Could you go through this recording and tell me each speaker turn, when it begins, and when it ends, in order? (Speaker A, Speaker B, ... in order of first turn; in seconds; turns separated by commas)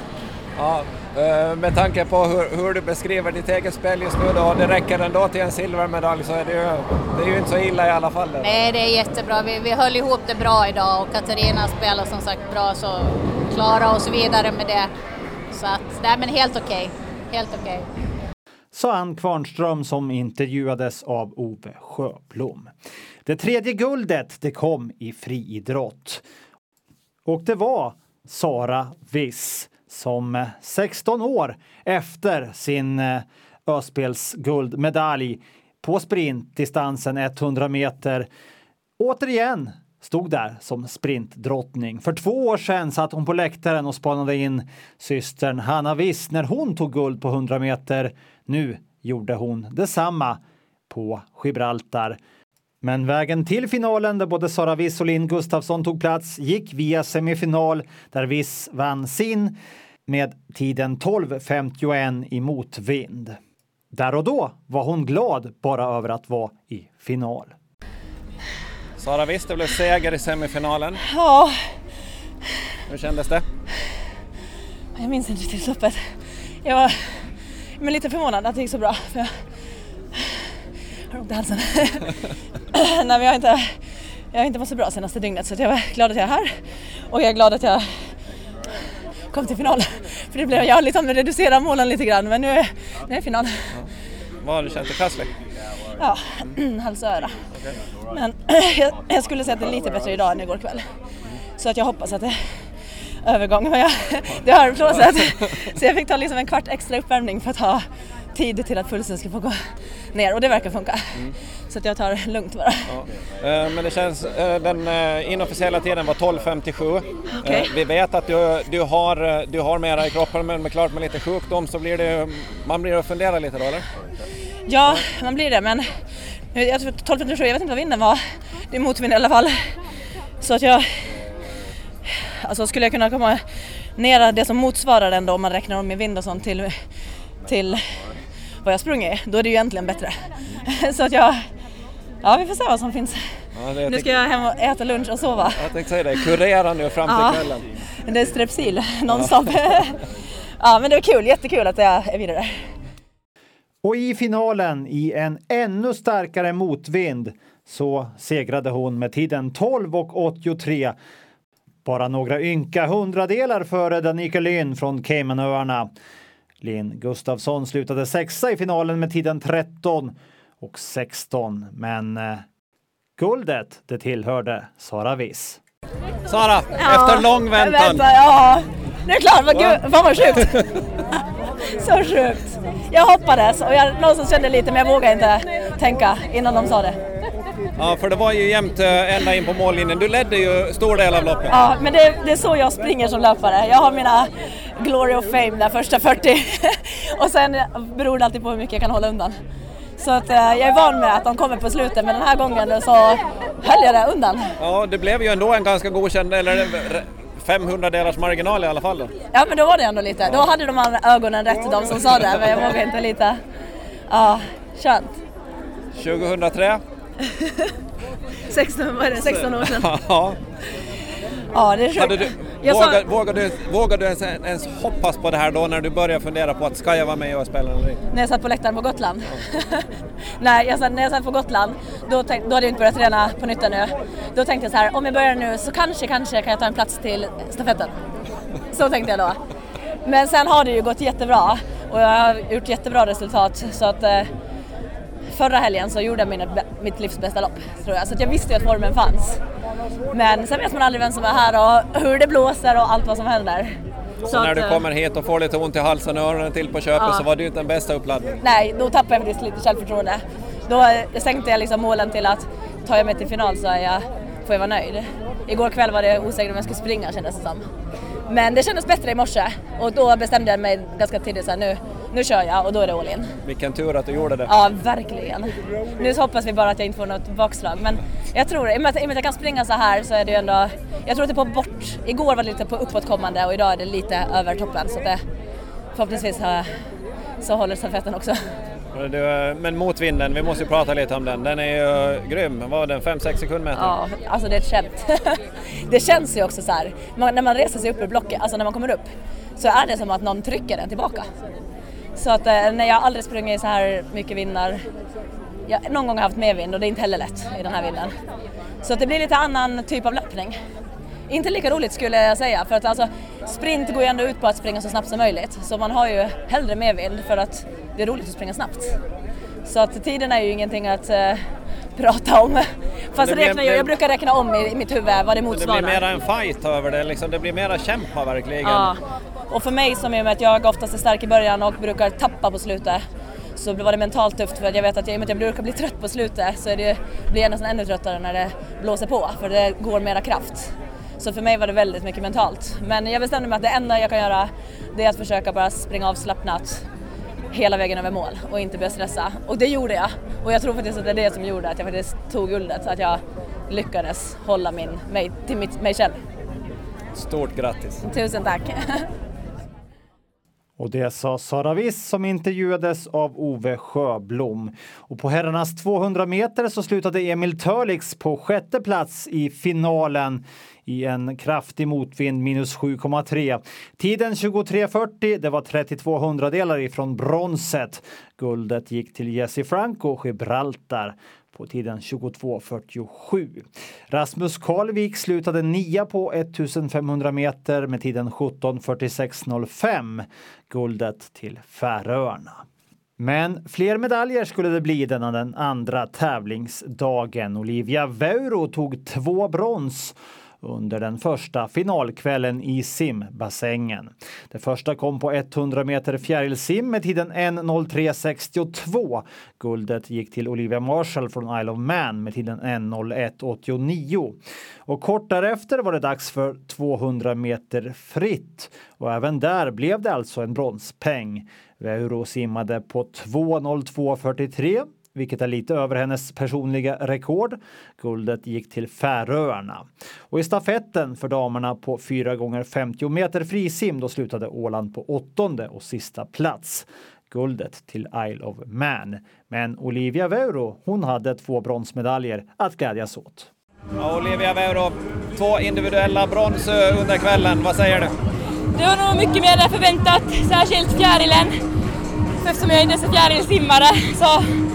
Speaker A: 0.6-8.7, Speaker B: 8.4-14.9, Speaker B: 15.5-17.9, Speaker C: 18.7-22.7, Speaker C: 23.3-26.2, Speaker C: 27.3-38.3, Speaker C: 39.0-52.2, Speaker C: 52.8-63.4, Speaker C: 63.9-67.5, Speaker A: 69.0-71.0, Speaker D: 71.1-71.6, Speaker A: 72.9-73.5, Speaker D: 75.0-76.0, Speaker D: 76.6-77.0, Speaker D: 77.8-79.3, Speaker D: 80.2-80.4, Speaker D: 81.1-82.1, Speaker D: 82.7-83.8, Speaker D: 84.3-86.5, Speaker D: 87.1-87.9, Speaker D: 89.3-93.6, Speaker A: 94.4-95.3, Speaker D: 96.0-97.5, Speaker D: 98.1-100.9, Speaker D: 101.6-102.4, Speaker D: 103.2-109.6, Speaker D: 110.1-111.2, Speaker D: 111.7-112.9, Speaker A: 112.9-123.9, Speaker D: 117.3-117.7, Speaker D: 124.7-125.8, Speaker D: 126.5-129.6, Speaker D: 130.4-130.8, Speaker D: 132.4-133.4, Speaker D: 134.0-136.7, Speaker D: 137.5-137.8, Speaker D: 138.6-141.4, Speaker D: 142.2-143.2, Speaker A: 143.6-144.1, Speaker D: 143.8-145.6, Speaker A: 145.6-147.7, Speaker D: 147.1-147.5, Speaker D: 148.1-150.1, Speaker D: 150.6-152.6, Speaker C: 153.8-161.0, Speaker C: 161.8-165.9, Speaker C: 166.6-172.4, Speaker C: 173.2-175.6, Speaker A: 176.3-178.0, Speaker D: 176.8-180.6, Speaker A: 179.5-180.8, Speaker D: 181.6-187.0, Speaker A: 187.8-191.6, Speaker D: 191.5-199.4, Speaker D: 200.0-204.5, Speaker A: 204.6-209.1, Speaker D: 209.3-213.4, Speaker D: 214.1-215.2, Speaker A: 215.9-216.8, Speaker D: 217.3-217.7, Speaker D: 218.5-219.9, Speaker A: 219.2-220.4, Speaker D: 221.5-223.0, Speaker A: 222.0-228.0, Speaker D: 228.1-238.0, Speaker D: 238.7-239.4, Speaker D: 240.0-244.3, Speaker D: 245.3-249.4, Speaker D: 250.1-254.8, Speaker A: 254.2-258.4, Speaker D: 257.0-257.3, Speaker D: 258.4-267.6, Speaker D: 268.3-273.3, Speaker A: 273.4-274.5, Speaker D: 274.5-285.2, Speaker D: 285.9-286.7, Speaker D: 287.4-288.4, Speaker A: 288.9-293.9, Speaker D: 293.7-301.3, Speaker D: 302.2-304.9, Speaker D: 305.7-308.2, Speaker D: 308.8-310.6, Speaker D: 311.3-319.0, Speaker D: 319.7-326.0, Speaker A: 323.2-323.9, Speaker A: 325.5-328.9, Speaker D: 328.6-333.0, Speaker D: 333.6-346.8, Speaker D: 347.5-356.2, Speaker A: 357.1-358.0, Speaker D: 358.0-359.1, Speaker C: 360.8-392.6, Speaker C: 393.2-443.5, Speaker A: 444.0-448.1, Speaker E: 448.8-451.6, Speaker E: 452.4-454.6